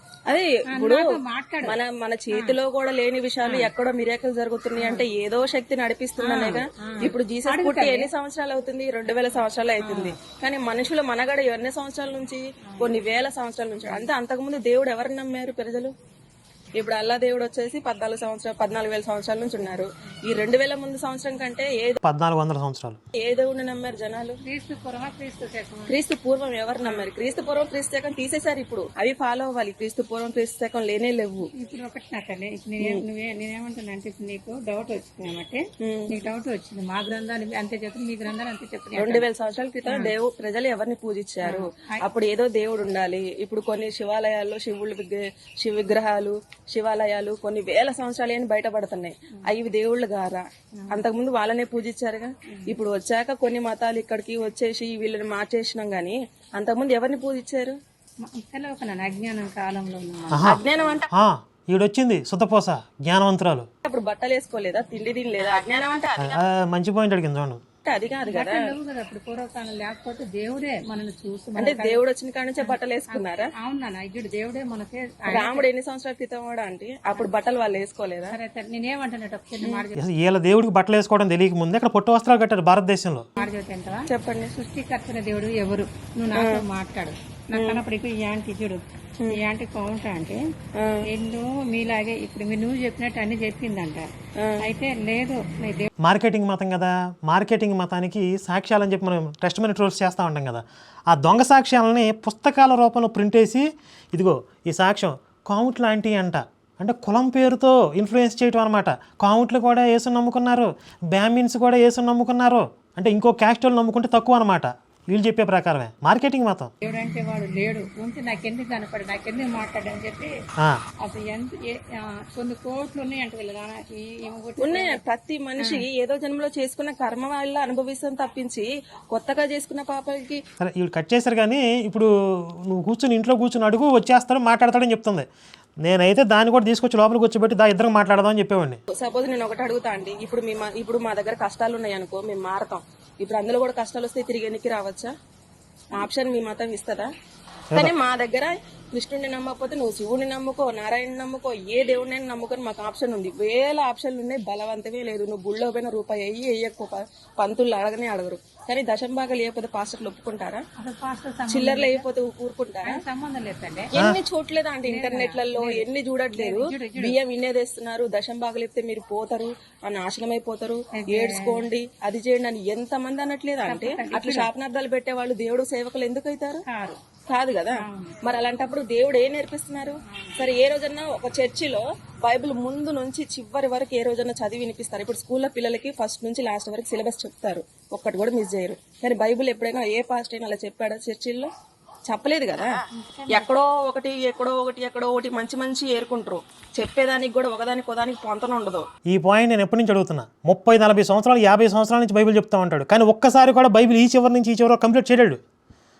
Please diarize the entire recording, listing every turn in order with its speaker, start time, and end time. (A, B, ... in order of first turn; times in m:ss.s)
0:00.3-0:01.0 A
0:00.7-0:01.8 B
0:01.6-0:15.9 A
0:02.3-0:02.6 B
0:03.4-0:03.7 B
0:04.8-0:05.0 B
0:06.2-0:08.1 B
0:09.8-0:10.2 B
0:12.6-0:13.0 B
0:16.8-0:22.0 A
0:22.0-0:23.0 C
0:23.2-0:24.4 A
0:24.4-0:25.9 B
0:25.9-0:31.5 A
0:31.6-0:39.2 B
0:35.8-0:36.1 A
0:39.0-0:57.7 A
0:39.8-0:40.1 B
0:41.4-0:42.0 B
0:50.8-0:51.0 B
0:52.5-0:52.8 B
0:58.2-1:00.6 B
1:00.3-1:00.6 C
1:00.4-1:01.1 A
1:01.1-1:03.7 C
1:03.8-1:06.4 A
1:06.2-1:07.6 C
1:07.8-1:08.7 A
1:08.3-1:12.0 B
1:11.6-1:13.5 A
1:12.6-1:15.7 B
1:15.3-1:18.3 A
1:18.3-1:20.0 B
1:20.0-1:23.2 C
1:23.4-1:30.4 B
1:24.1-1:24.5 A
1:26.4-1:26.6 A
1:27.5-1:27.8 A
1:30.8-1:31.0 A
1:31.1-1:34.1 B
1:34.6-1:35.9 B
1:36.0-1:56.7 C
1:56.8-2:00.3 B
2:01.0-2:05.0 B
2:04.6-2:10.4 A
2:10.6-2:12.1 C
2:12.7-2:15.2 C
2:15.8-2:18.8 C
2:18.9-2:25.1 A
2:25.9-2:27.1 A
2:27.7-2:40.6 A
2:40.8-2:42.0 B
2:41.5-2:42.9 A
2:42.8-2:43.9 B
2:43.9-2:56.6 A
2:44.8-2:47.2 B
2:50.9-2:51.6 B
2:53.7-2:54.5 B
2:56.6-2:57.0 B
2:57.3-3:11.5 A
2:57.8-2:58.2 B
3:00.0-3:00.4 B
3:12.0-3:12.7 A
3:12.9-3:13.5 B
3:13.3-3:18.8 A
3:19.1-3:25.4 C